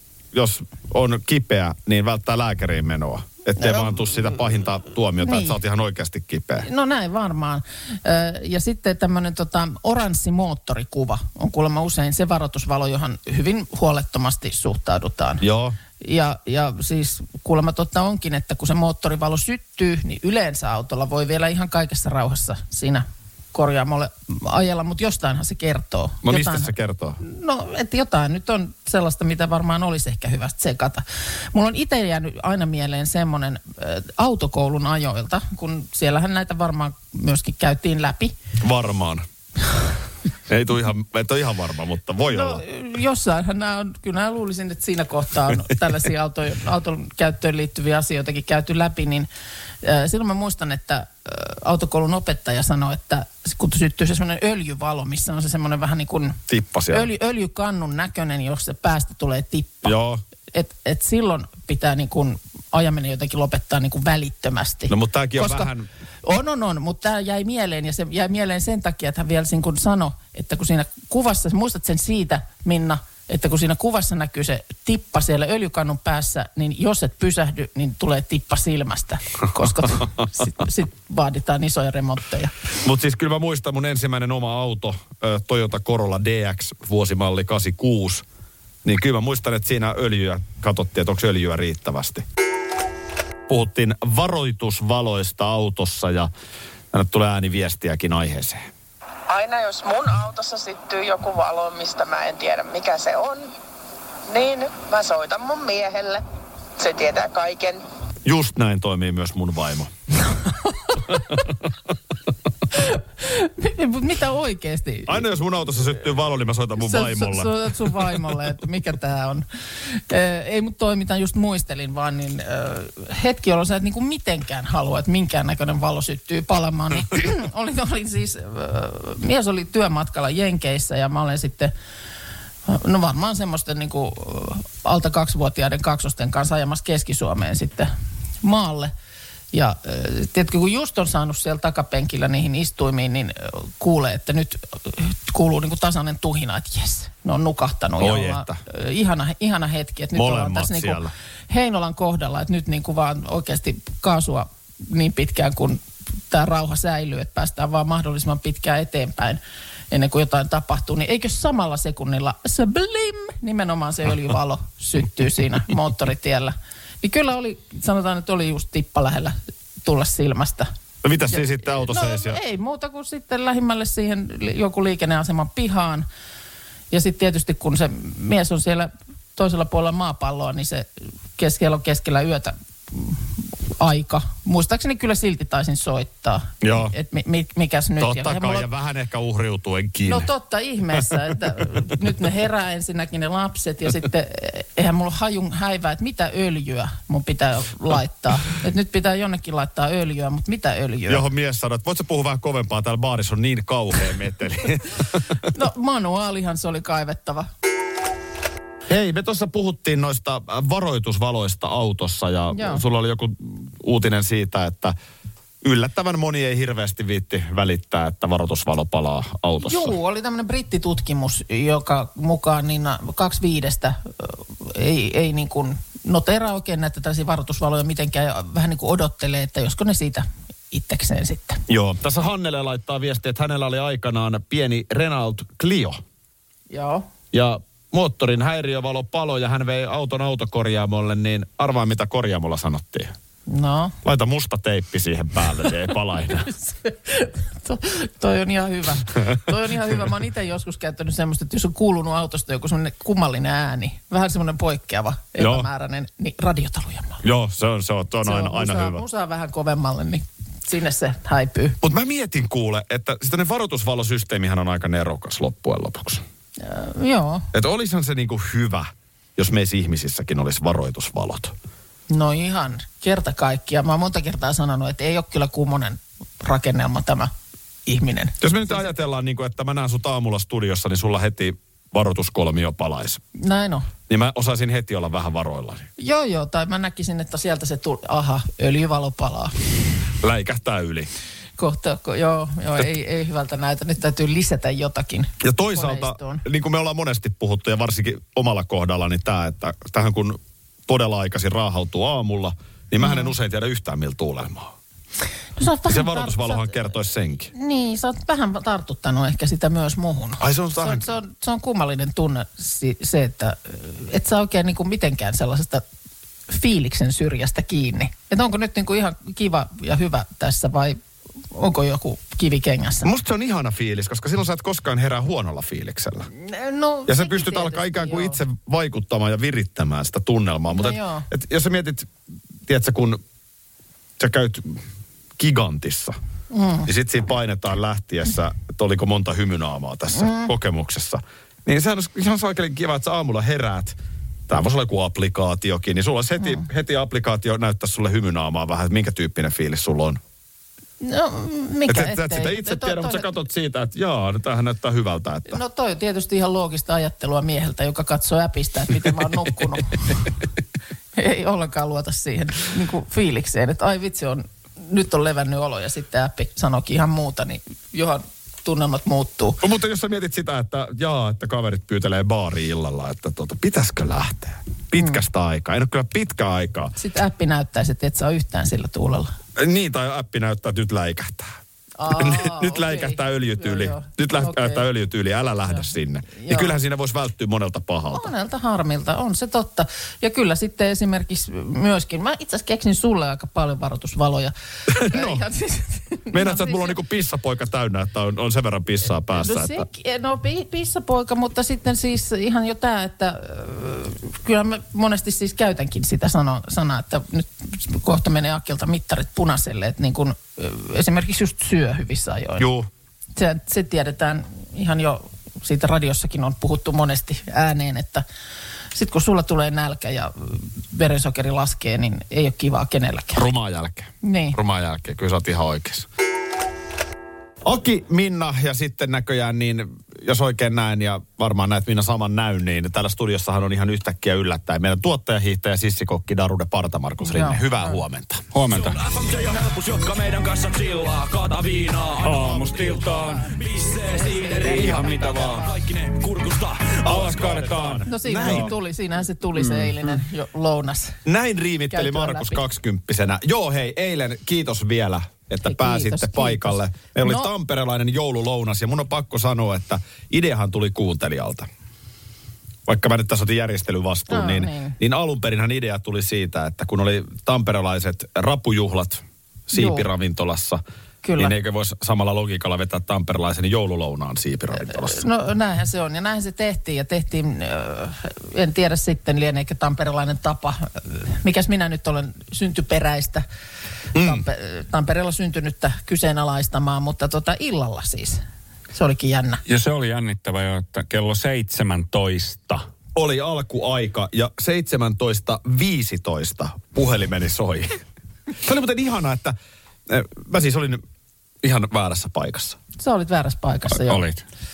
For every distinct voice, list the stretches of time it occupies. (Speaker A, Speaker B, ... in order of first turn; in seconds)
Speaker A: 0.3-6.7, 15.4-15.8, 26.2-27.2, 38.6-39.2, 40.5-42.6, 56.5-57.1, 59.8-60.2, 64.9-65.9, 82.8-88.2, 88.8-92.2, 93.5-96.3, 96.9-98.6, 108.2-109.9, 111.1-111.4, 115.1-118.1, 148.0-148.6, 150.1-151.1, 171.0-172.4, 186.6-186.9, 188.0-190.3, 201.1-205.3, 208.9-214.9, 215.6-219.9, 231.7-236.0, 237.3-243.1, 244.0-246.5, 255.4-255.7, 257.2-259.0, 261.8-266.2, 267.5-271.5, 278.4-283.2, 284.1-285.9, 290.2-291.1, 295.4-304.7, 305.9-307.5, 310.4-311.1, 323.0-326.3, 327.1-332.1, 332.7-333.2, 334.2-334.8, 335.4-336.1, 336.9-344.0, 344.5-350.2, 351.9-355.6, 369.6-376.9, 379.6-381.6, 382.1-388.3, 394.9-395.4, 396.3-399.9, 412.6-412.9, 423.3-426.1, 427.6-438.5, 444.7-445.2, 447.0-448.7, 451.3-461.7, 462.9-470.8, 471.4-475.2, 484.1-484.4, 493.1-498.0, 498.6-499.5, 500.1-501.0, 501.6-502.8
Speaker B: 3.6-4.0, 5.2-5.6, 6.6-15.4, 16.0-38.3, 42.3-49.3, 49.8-59.9, 60.5-65.7, 66.2-82.5, 110.9-111.2, 112.7-115.2, 116.8-131.7, 132.7-137.9, 138.4-138.9, 139.5-170.7, 171.3-176.1, 176.9-188.7, 190.1-201.2, 205.4-207.5, 212.5-212.8, 219.6-231.6, 236.7-237.1, 243.5-244.0, 246.4-257.2, 258.2-261.8, 266.6-267.5, 272.1-277.3, 277.9-278.8, 283.4-283.9, 286.0-289.5, 291.6-296.4, 303.0-303.3, 305.6-306.8, 307.5-315.8, 316.5-321.0, 321.5-323.1, 326.3-328.4, 330.7-331.3, 336.5-336.9, 340.1-340.5, 351.0-353.3, 355.5-360.3, 361.1-369.6, 377.0-379.3, 382.0-384.9, 385.7-386.7, 388.1-397.0, 399.3-412.7, 413.4-418.2, 418.9-423.4, 424.2-424.6, 437.2-437.9, 444.1-445.7, 448.1-451.2, 451.9-452.6, 455.6-457.5, 464.3-465.0, 469.7-470.1, 471.2-471.6, 474.8-483.4, 484.1-488.4, 488.9-489.6, 503.0-504.2
Speaker C: 99.3-103.5, 104.3-106.2, 106.8-107.8
Speaker D: 438.5-439.0, 442.2-443.6, 444.5-445.6, 447.0-448.7, 449.6-450.2, 489.7-492.9, 504.0-504.4
Speaker E: 438.7-447.0